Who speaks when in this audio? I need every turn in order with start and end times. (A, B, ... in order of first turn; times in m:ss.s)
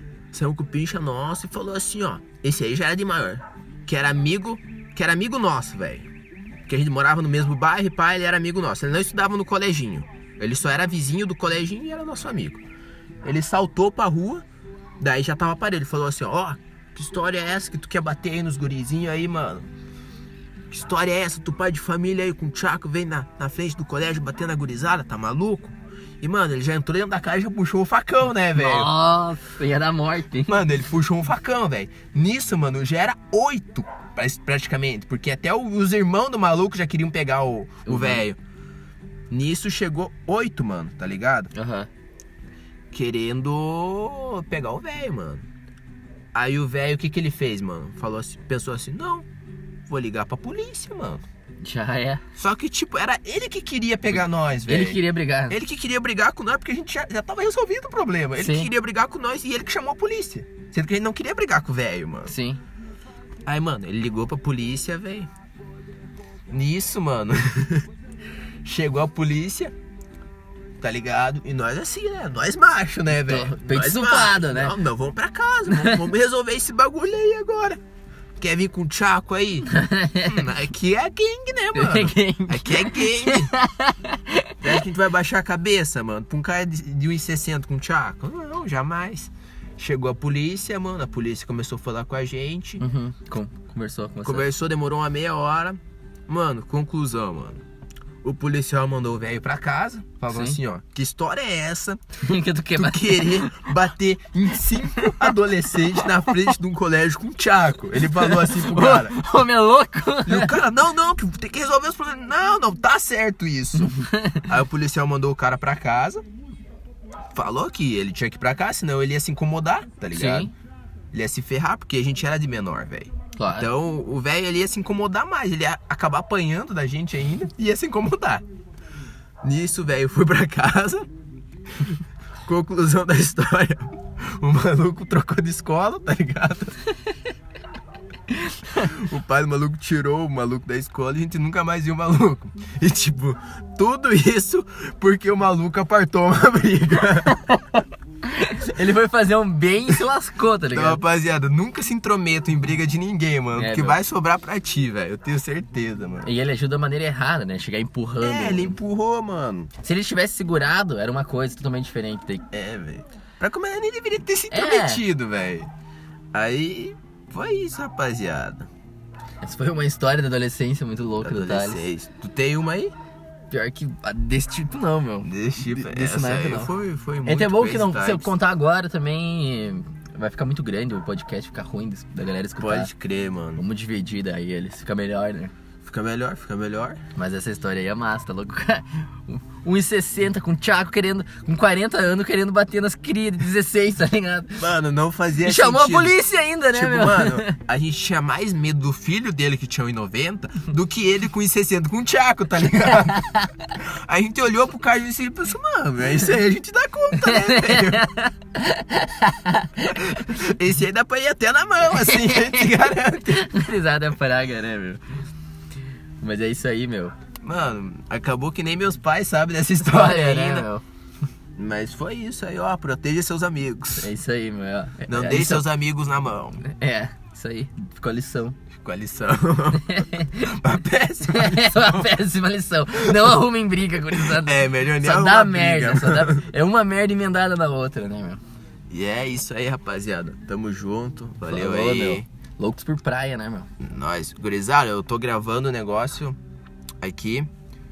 0:00.3-0:06.1 A
0:06.7-0:12.6 A
0:13.2-0:14.4 A
0:15.0-0:19.7 A
0:20.7-0:28.9 A
0:28.6-0:30.5 B
0:30.5-0:38.4 A
0:37.8-0:38.2 B
0:39.3-0:41.5 A
0:41.5-0:41.9 B
0:42.9-0:45.4 A
0:46.3-0:49.2 A
0:49.9-0:51.2 A
0:51.6-0:52.2 B
0:52.3-1:02.3 A
0:54.7-0:55.6 B
0:58.4-0:58.7 B
1:02.3-1:02.6 B
1:03.4-1:05.3 A
1:06.5-1:07.9 A
1:08.6-1:09.7 A
1:10.8-1:17.8 A
1:13.2-1:14.8 B
1:15.7-1:16.0 B
1:18.4-1:23.5 A
1:19.7-1:20.4 B
1:21.7-1:24.8 B
1:24.6-1:32.8 A
1:32.8-1:34.4 B
1:34.2-1:37.6 A
1:38.2-1:42.0 A
1:40.3-1:40.6 B
1:42.2-1:43.6 B
1:42.8-1:49.2 A
1:48.1-1:50.6 B
1:50.2-1:56.2 A
1:53.8-1:54.5 B
1:57.3-2:00.5 A
2:00.1-2:00.5 B
2:01.1-2:08.4 A
2:03.4-2:03.7 B
2:09.4-2:11.1 A
2:12.4-2:16.8 A
2:18.8-2:27.6 A
2:28.3-2:31.0 B
2:30.7-2:36.3 A
2:33.6-2:34.0 B
2:36.2-2:38.8 B
2:38.2-2:39.7 A
2:39.8-2:42.4 B
2:42.5-2:45.7 A
2:44.5-2:45.0 B
2:46.3-2:48.7 A
2:49.4-2:51.8 B
2:51.2-2:52.9 A
2:53.5-2:56.7 B
2:55.2-2:58.3 A
2:57.2-3:02.9 B
3:02.6-3:03.6 A
3:03.6-3:05.5 B
3:05.8-3:07.0 A
3:07.2-3:14.7 B
3:14.6-3:28.1 A
3:15.4-3:17.5 B
3:27.2-3:30.2 B
3:29.9-3:33.5 A
3:31.9-3:35.0 B
3:36.2-3:37.1 B
3:37.4-3:40.7 A
3:39.8-3:40.8 B
3:41.6-3:44.1 A
3:44.0-3:45.6 B
3:45.1-3:46.6 A
3:46.6-3:48.6 B
3:48.7-3:52.2 A
3:49.7-3:50.5 B
3:51.3-3:58.4 B
3:54.4-3:56.5 A
3:58.9-4:02.2 A
4:01.5-4:03.7 B
4:03.8-4:06.4 A
4:07.0-4:07.5 A